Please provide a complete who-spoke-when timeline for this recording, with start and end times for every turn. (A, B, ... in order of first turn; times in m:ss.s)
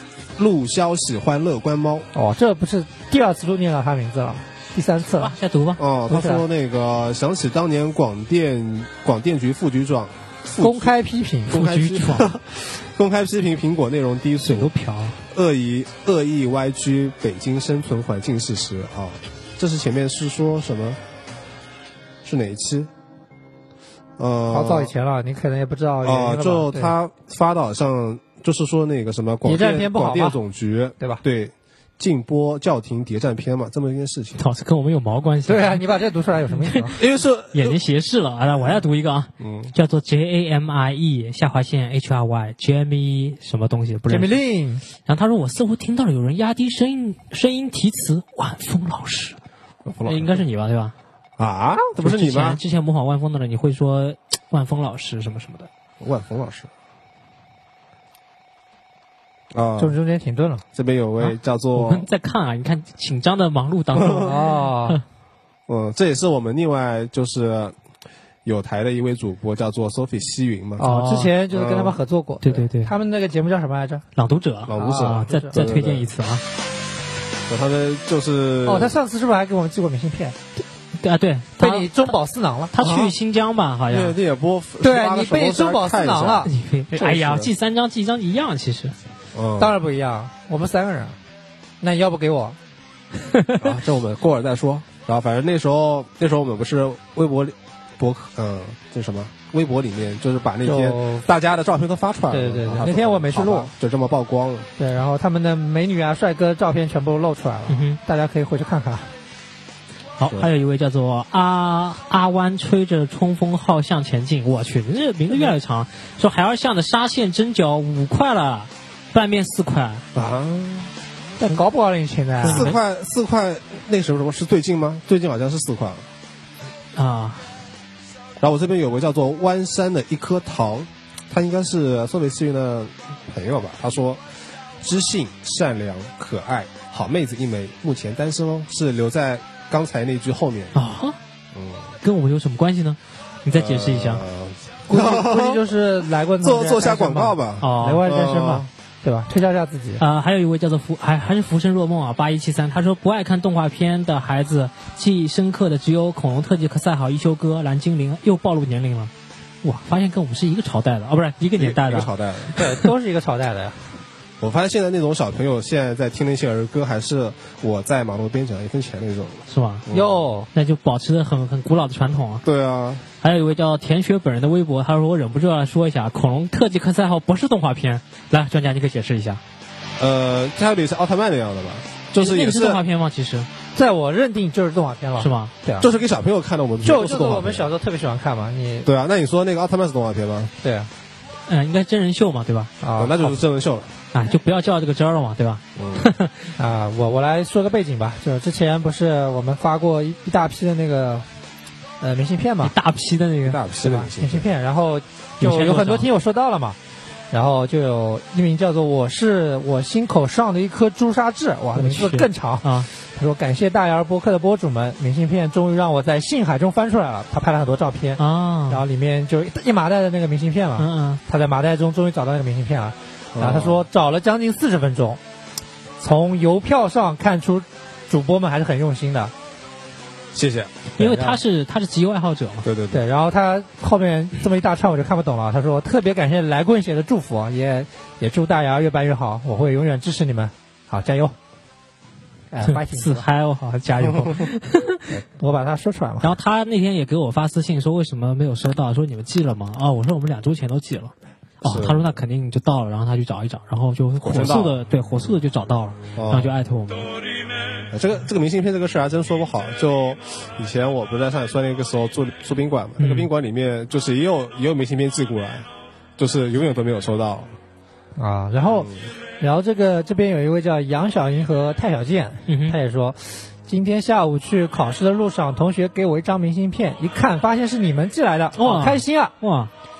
0:00.4-0:02.1 A
0:02.1-0:05.3 B
0:05.2-0:05.8 C
0:05.8-0:10.9 A
0:06.1-0:06.4 B
0:10.6-0:11.6 B
0:11.5-0:14.7 A
0:11.5-0:12.4 C
0:14.4-0:15.2 C
0:15.3-0:21.0 A
0:22.2-0:22.9 A
0:24.2-0:24.9 A
0:24.5-0:26.9 B
0:26.0-0:34.4 A
0:29.4-0:30.4 B
0:34.4-0:35.8 C
0:35.4-0:37.0 B
0:36.6-0:37.0 C
0:37.0-0:37.8 A
0:37.5-0:44.4 C
0:39.4-0:39.7 A
0:44.1-0:44.8 B
0:45.0-0:49.4 C
0:49.8-0:50.4 A
0:50.0-0:50.9 C
0:51.4-0:52.6 A
0:52.0-0:55.7 C
0:56.0-0:56.7 A
0:59.5-1:00.0 A
0:59.8-1:00.6 B
1:00.7-1:02.1 A
1:01.2-1:04.3 C
1:04.0-1:04.3 A
1:04.0-1:05.0 B
1:05.7-1:07.8 A
1:08.4-1:10.8 A
1:10.8-1:14.0 B
1:10.8-1:11.3 C
1:11.5-1:12.0 A
1:12.4-1:12.9 C
1:14.2-1:16.4 C
1:14.7-1:16.1 A
1:14.7-1:15.6 B
1:17.5-1:18.9 A
1:18.6-1:20.4 B
1:21.0-1:22.1 C
1:21.6-1:22.7 B
1:22.7-1:24.2 C
1:22.8-1:23.1 A
1:23.9-1:26.5 A
1:24.8-1:26.5 B
1:26.4-1:29.0 C
1:27.0-1:27.5 A
1:29.3-1:29.7 A
1:29.6-1:31.2 B
1:31.8-1:32.6 B
1:33.3-1:33.6 C
1:33.6-1:44.7 A
1:40.6-1:41.2 B
1:42.3-1:43.7 B
1:44.8-1:49.1 B
1:47.7-1:48.0 C
1:50.2-2:00.0 C
2:00.1-2:00.9 A
2:01.4-2:02.7 B
2:02.4-2:02.8 C
2:02.4-2:06.1 A
2:06.9-2:07.5 C
2:08.4-2:20.8 A
2:20.7-2:21.2 C
2:21.5-2:22.0 A
2:22.0-2:24.2 C
2:23.5-2:25.6 A
2:24.9-2:30.0 B
2:26.4-2:28.7 A
2:27.6-2:28.0 C
2:30.0-2:39.1 C
2:39.6-2:42.6 C
2:41.6-2:42.6 A
2:42.6-2:44.0 B
2:44.4-2:50.2 A
2:49.5-2:49.8 C
2:49.9-2:50.5 B
2:50.5-2:52.4 C
2:52.4-2:53.0 A
2:53.2-2:59.4 C
3:00.0-3:02.8 A
3:02.2-3:03.5 C
3:03.7-3:05.9 B
3:05.2-3:05.5 C
3:05.8-3:07.7 A
3:06.8-3:08.9 B
3:08.8-3:10.5 A
3:10.6-3:10.9 B
3:11.5-3:12.7 C
3:12.8-3:13.4 B
3:13.0-3:13.9 A
3:14.1-3:16.5 C
3:15.8-3:16.1 A
3:16.6-3:21.3 B
3:22.0-3:22.7 B
3:22.6-3:23.6 C
3:23.4-3:24.5 A
3:23.8-3:26.8 B
3:25.4-3:26.1 C
3:27.3-3:45.2 B
3:31.8-3:32.9 C
3:38.2-3:38.8 C
3:40.8-3:41.2 C
3:43.3-3:43.8 A
3:46.0-3:49.3 B
3:50.3-3:50.9 A
3:51.0-3:52.7 C
3:51.0-3:51.4 B
3:52.6-3:53.0 A
3:52.9-4:01.3 B
4:02.5-4:03.3 B
4:02.6-4:05.1 C
4:05.1-4:06.3 B
4:06.2-4:17.1 C
4:11.6-4:12.0 A
4:14.2-4:14.8 A
4:16.2-4:16.5 A
4:17.9-4:27.6 A
4:23.0-4:23.3 C
4:28.2-4:39.3 B
4:28.7-4:29.1 A
4:32.5-4:32.8 C
4:38.6-4:39.7 C